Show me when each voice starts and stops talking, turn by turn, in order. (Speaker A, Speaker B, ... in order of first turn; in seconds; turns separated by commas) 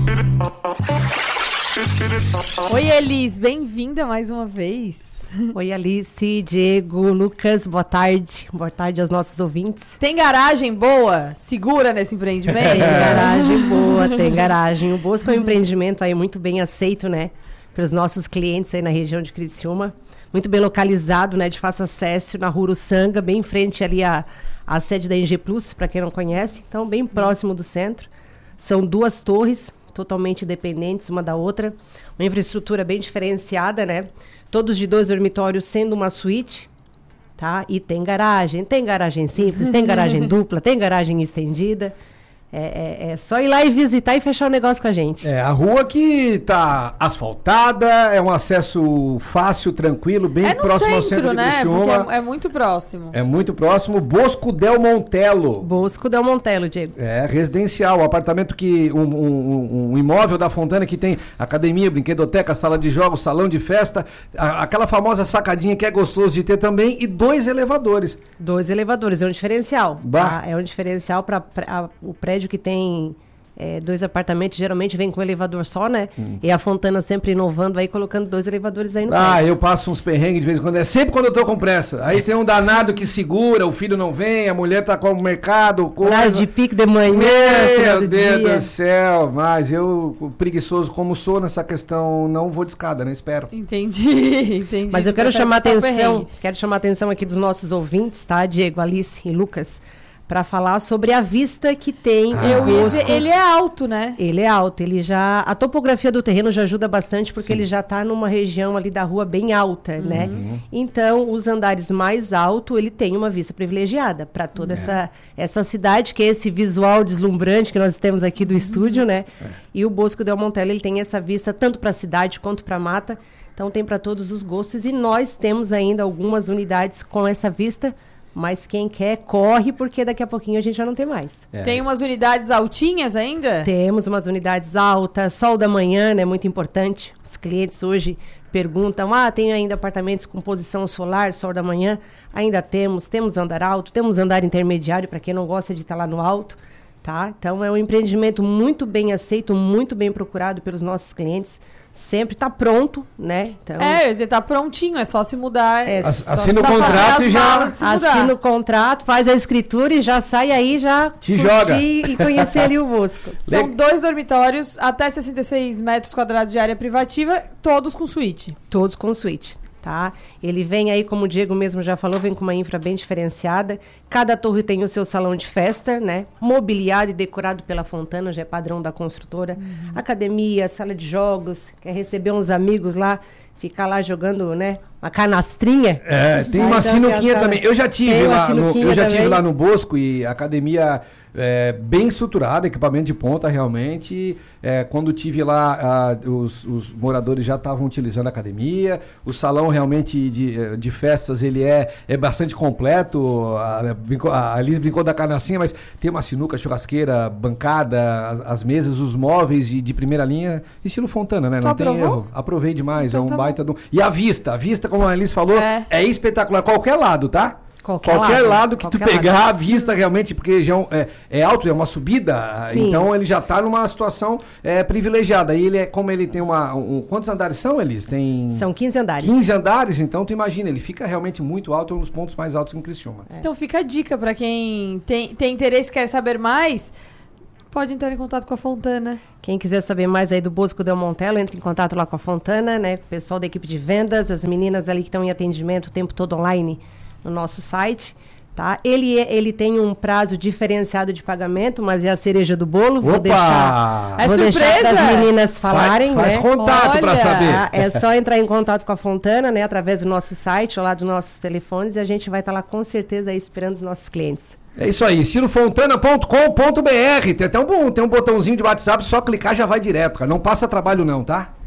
Speaker A: 2.6-5.4, Speaker B: 5.5-10.0, Speaker A: 10.0-14.4, Speaker C: 12.5-13.2, Speaker B: 12.6-36.7, Speaker B: 37.4-41.9, Speaker B: 42.5-45.3, Speaker C: 45.2-52.1, Speaker A: 50.4-53.1, Speaker C: 53.1-55.7, Speaker B: 55.6-56.9, Speaker C: 57.0-68.2, Speaker B: 68.4-79.4, Speaker C: 70.0-70.4, Speaker C: 79.1-86.5, Speaker B: 86.0-88.7, Speaker C: 87.0-93.5, Speaker A: 93.5-96.3, Speaker B: 94.9-103.2, Speaker C: 102.3-103.2, Speaker A: 102.3-104.2, Speaker B: 104.2-131.4, Speaker A: 110.0-110.3, Speaker C: 110.1-110.6, Speaker C: 131.5-131.8, Speaker A: 131.6-133.7, Speaker B: 133.6-154.0, Speaker A: 153.8-158.3, Speaker B: 155.8-163.5, Speaker C: 156.0-157.7, Speaker C: 161.2-162.6, Speaker C: 163.5-163.7, Speaker A: 163.5-168.6, Speaker B: 168.7-189.4, Speaker C: 186.0-228.7, Speaker A: 211.6-212.2, Speaker A: 213.0-213.5, Speaker A: 215.5-215.8, Speaker B: 217.8-219.4, Speaker B: 222.7-223.1, Speaker B: 228.5-229.4, Speaker C: 229.2-233.2, Speaker A: 233.4-236.9, Speaker A: 237.7-239.2, Speaker B: 239.4-256.5, Speaker C: 253.0-254.2, Speaker A: 254.2-255.3, Speaker C: 255.7-258.0, Speaker A: 256.6-257.5, Speaker B: 257.4-264.6, Speaker C: 264.8-271.5